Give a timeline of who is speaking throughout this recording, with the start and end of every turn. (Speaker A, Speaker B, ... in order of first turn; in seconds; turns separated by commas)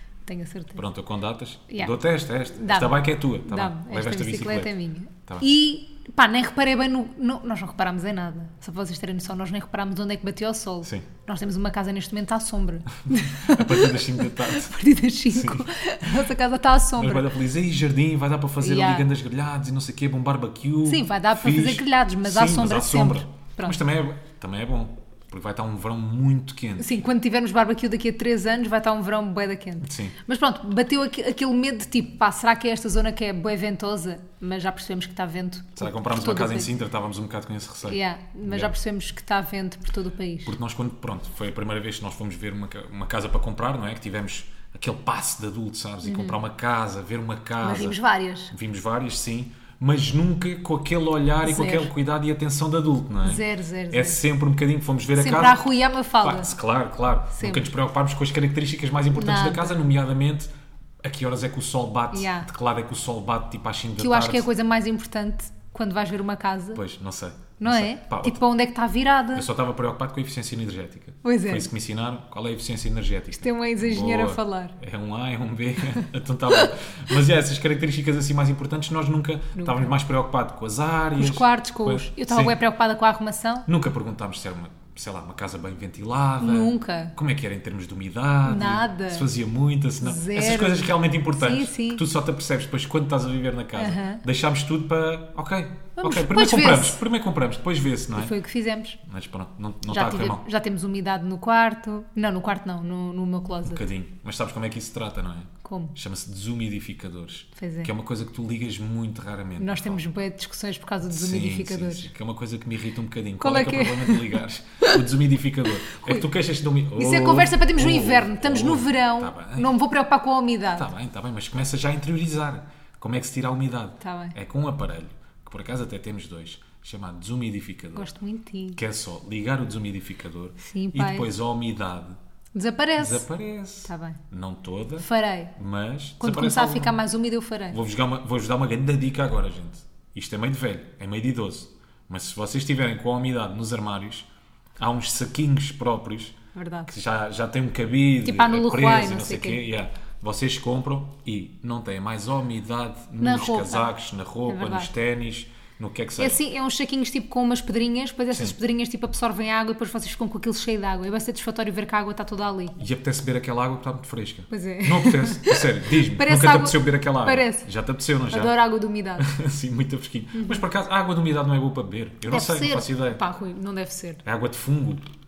Speaker A: 0.2-0.8, Speaker B: 0.8-4.7, Speaker A: 1.7-1.9, Speaker A: 2.5-17.3, Speaker B: 13.1-14.7, Speaker B: 15.3-15.7, Speaker B: 17.0-27.0, Speaker A: 18.6-19.1, Speaker A: 20.9-23.8, Speaker A: 26.8-36.7, Speaker B: 29.8-30.1, Speaker B: 35.8-38.7, Speaker A: 37.9-40.5, Speaker B: 40.4-48.0, Speaker A: 46.0-46.4, Speaker A: 47.6-48.5, Speaker B: 48.5-55.6, Speaker A: 51.4-51.9, Speaker A: 53.2-54.2, Speaker A: 55.1-56.5, Speaker B: 56.2-60.5, Speaker A: 57.3-57.7, Speaker A: 59.1-59.8, Speaker B: 61.0-64.5, Speaker A: 62.1-62.5, Speaker A: 64.0-66.8, Speaker B: 66.7-68.4, Speaker A: 67.6-69.5, Speaker B: 69.3-82.6, Speaker A: 71.2-71.7, Speaker A: 73.3-74.7, Speaker A: 79.5-79.9, Speaker A: 81.2-83.7, Speaker B: 83.7-98.3, Speaker A: 86.4-87.1, Speaker A: 88.4-89.3, Speaker A: 90.0-92.0, Speaker A: 93.8-94.2, Speaker A: 96.0-97.0, Speaker A: 98.1-99.0, Speaker B: 99.0-100.4, Speaker A: 99.9-103.8, Speaker B: 103.6-110.1, Speaker A: 105.6-105.9, Speaker A: 107.6-107.9, Speaker A: 109.6-112.1, Speaker B: 111.1-119.8, Speaker A: 113.4-115.0, Speaker A: 115.8-116.2, Speaker A: 117.0-120.9, Speaker B: 120.8-128.1, Speaker A: 124.0-124.3, Speaker A: 127.9-128.8, Speaker B: 128.8-132.2, Speaker A: 130.6-131.3, Speaker A: 132.5-133.2, Speaker B: 133.0-137.0, Speaker A: 133.9-134.2, Speaker A: 135.0-135.5, Speaker A: 136.2-137.8, Speaker B: 137.7-144.3, Speaker B: 144.8-146.3, Speaker A: 146.5-146.9, Speaker B: 146.9-156.4, Speaker A: 148.2-149.6, Speaker A: 153.2-153.9, Speaker A: 154.4-154.9, Speaker A: 156.2-162.8, Speaker B: 162.8-168.6, Speaker A: 164.5-167.6, Speaker A: 168.3-169.3, Speaker B: 169.2-173.2, Speaker A: 170.3-170.6, Speaker A: 172.2-174.2, Speaker B: 174.2-175.1